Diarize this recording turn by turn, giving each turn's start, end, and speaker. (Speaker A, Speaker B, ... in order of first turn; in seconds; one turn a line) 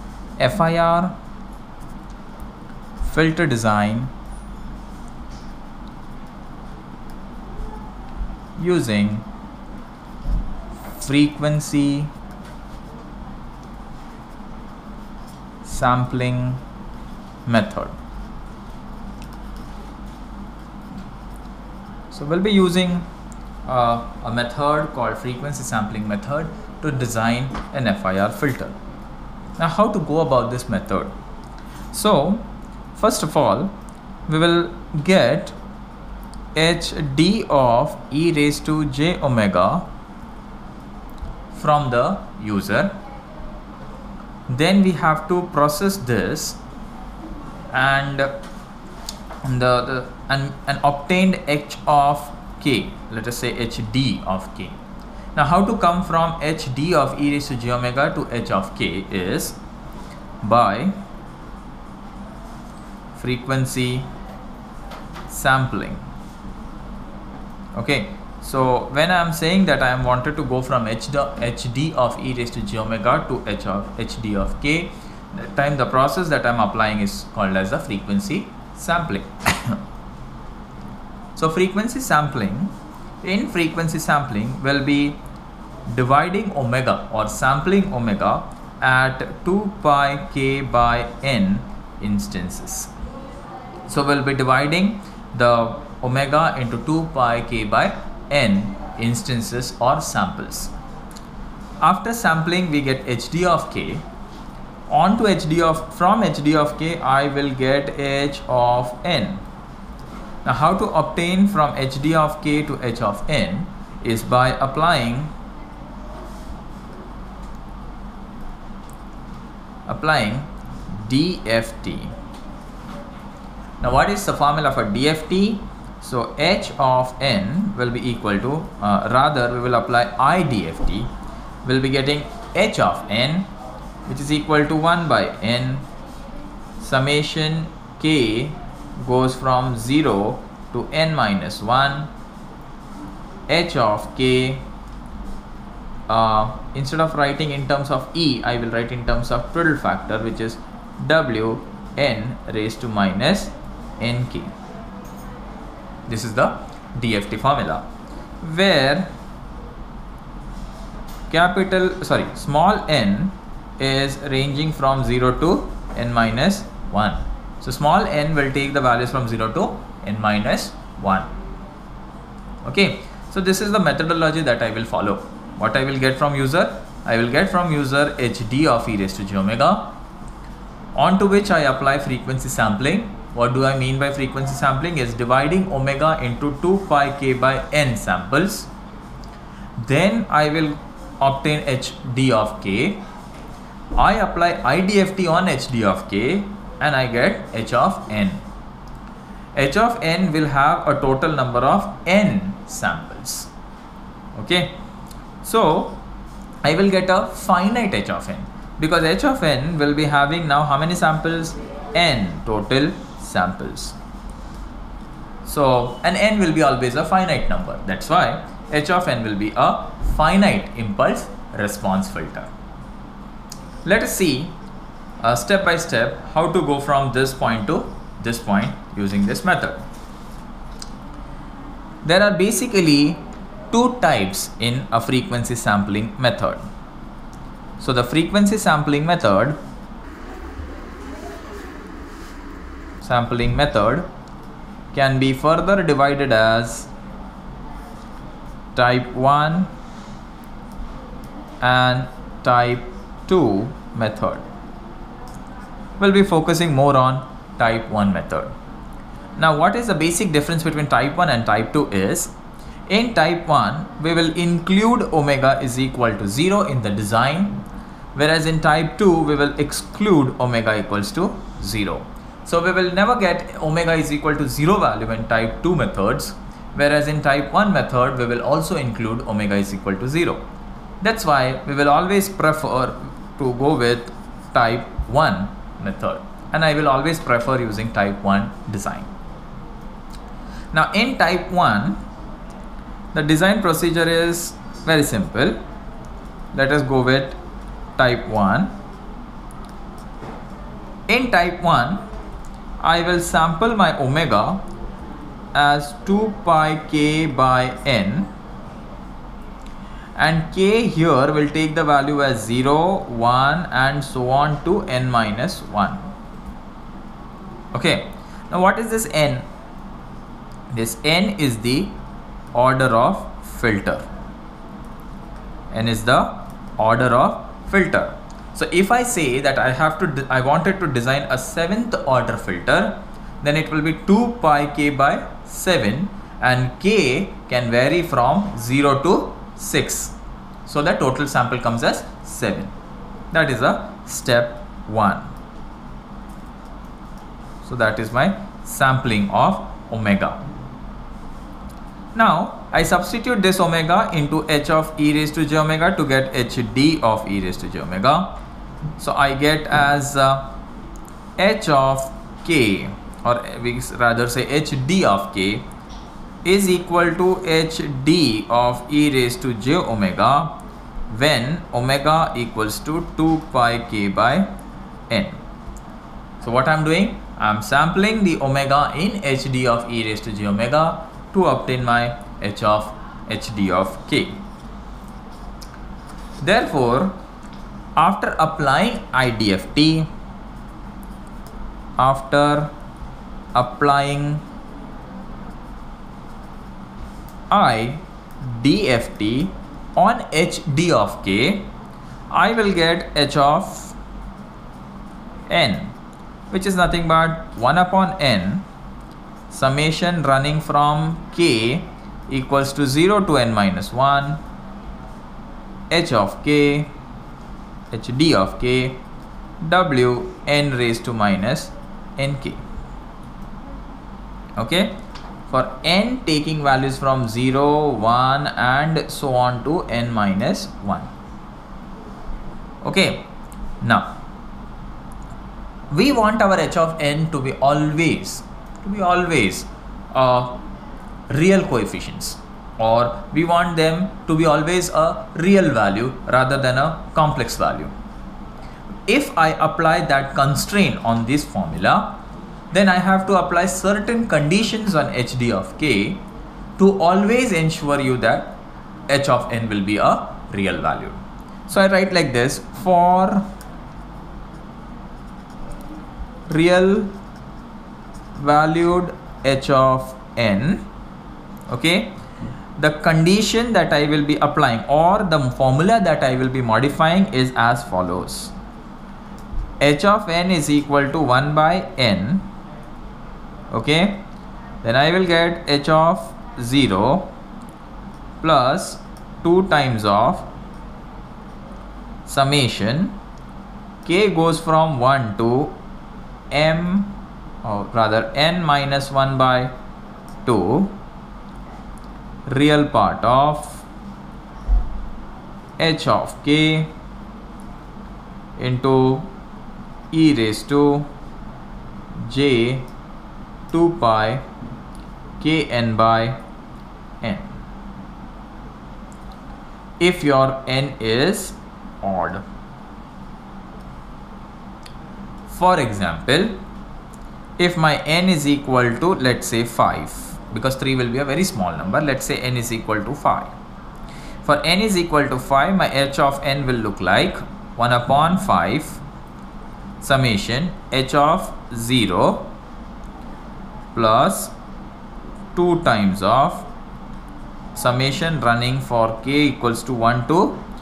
Speaker A: 0.4-1.1
Speaker A: 3.0-4.1
Speaker A: 8.6-9.2
Speaker A: 10.9-12.1
Speaker A: 15.6-16.6
Speaker A: 17.4-17.9
Speaker A: 22.1-23.1
Speaker A: 23.6-28.8
Speaker A: 29.6-31.1
Speaker A: 31.9-33.7
Speaker A: 34.3-35.5
Speaker A: 36.5-39.9
Speaker A: 41.5-43.0
Speaker A: 44.5-46.6
Speaker A: 47.7-48.4
Speaker A: 49.4-54.8
Speaker A: 55.3-59.6
Speaker A: 60.4-60.9
Speaker A: 63.1-64.1
Speaker A: 65.3-66.0
Speaker A: 67.7-79.8
Speaker A: 81.3-85.2
Speaker A: 85.9-92.9
Speaker A: 93.9-100.7
Speaker A: 101.8-104.0
Speaker A: 104.9-109.4
Speaker A: 110.4-115.3
Speaker A: 119.9-122.1
Speaker A: 123.8-131.1
Speaker A: 131.6-133.5
Speaker A: 134.1-135.8
Speaker A: 136.8-142.1
Speaker A: 143.5-144.6
Speaker A: 146.1-154.5
Speaker A: 156.1-157.9
Speaker A: 158.4-159.1
Speaker A: 161.3-171.3
Speaker A: 172.6-179.9
Speaker A: 180.9-188.7
Speaker A: 189.8-193.0
Speaker A: 193.9-198.4
Speaker A: 199.5-203.5
Speaker A: 204.3-204.8
Speaker A: 205.4-206.0
Speaker A: 206.6-214.0
Speaker A: 215.4-222.5
Speaker A: 223.8-224.5
Speaker A: 225.2-229.8
Speaker A: 232.0-236.7
Speaker A: 237.8-239.6
Speaker A: 243.0-244.1
Speaker A: 244.9-246.9
Speaker A: 248.7-249.7
Speaker A: 251.6-254.4
Speaker A: 256.0-258.5
Speaker A: 259.4-262.3
Speaker A: 262.9-267.6
Speaker A: 268.1-280.4
Speaker A: 281.0-289.1
Speaker A: 290.7-292.0
Speaker A: 293.1-295.6
Speaker A: 296.5-297.4
Speaker A: 298.0-298.7
Speaker A: 301.1-302.0
Speaker A: 302.8-304.6
Speaker A: 305.5-308.3
Speaker A: 310.1-316.1
Speaker A: 317.7-319.4
Speaker A: 320.7-321.9
Speaker A: 322.5-324.1
Speaker A: 325.7-340.1
Speaker A: 340.6-342.7
Speaker A: 343.3-345.3
Speaker A: 347.6-350.4
Speaker A: 352.1-358.4
Speaker A: 359.0-360.5
Speaker A: 361.4-365.6
Speaker A: 366.4-374.5
Speaker A: 375.1-375.4
Speaker A: 376.4-384.4
Speaker A: 386.4-387.1
Speaker A: 388.0-390.1
Speaker A: 392.0-392.7
Speaker A: 393.5-394.4
Speaker A: 397.5-401.7
Speaker A: 402.3-403.9
Speaker A: 405.5-405.9
Speaker A: 406.5-408.6
Speaker A: 409.5-414.4
Speaker A: 415.9-416.9
Speaker A: 417.9-419.0
Speaker A: 419.6-422.6
Speaker A: 424.6-431.1
Speaker A: 432.8-433.3
Speaker A: 433.8-434.1
Speaker A: 435.9-440.6
Speaker A: 441.3-447.9
Speaker A: 449.1-452.2
Speaker A: 452.7-456.2
Speaker A: 456.8-458.6
Speaker A: 459.1-463.4
Speaker A: 466.5-467.1
Speaker A: 468.4-470.8
Speaker A: 471.7-472.1
Speaker A: 472.8-478.5
Speaker A: 479.8-482.5
Speaker A: 483.7-484.2
Speaker A: 484.8-487.3
Speaker A: 488.4-490.5
Speaker A: 492.3-493.2
Speaker A: 494.0-495.7
Speaker A: 496.5-499.7
Speaker A: 500.4-500.9
Speaker A: 502.5-503.8
Speaker A: 505.8-506.9
Speaker A: 508.6-509.3
Speaker A: 510.1-511.1
Speaker A: 512.1-512.9
Speaker A: 513.7-514.4
Speaker A: 515.4-516.4
Speaker A: 517.2-517.6
Speaker A: 520.0-522.4
Speaker A: 525.5-526.6
Speaker A: 527.6-533.5
Speaker A: 534.4-539.0
Speaker A: 540.0-542.5
Speaker A: 543.9-544.5
Speaker A: 545.5-546.7
Speaker A: 547.7-550.6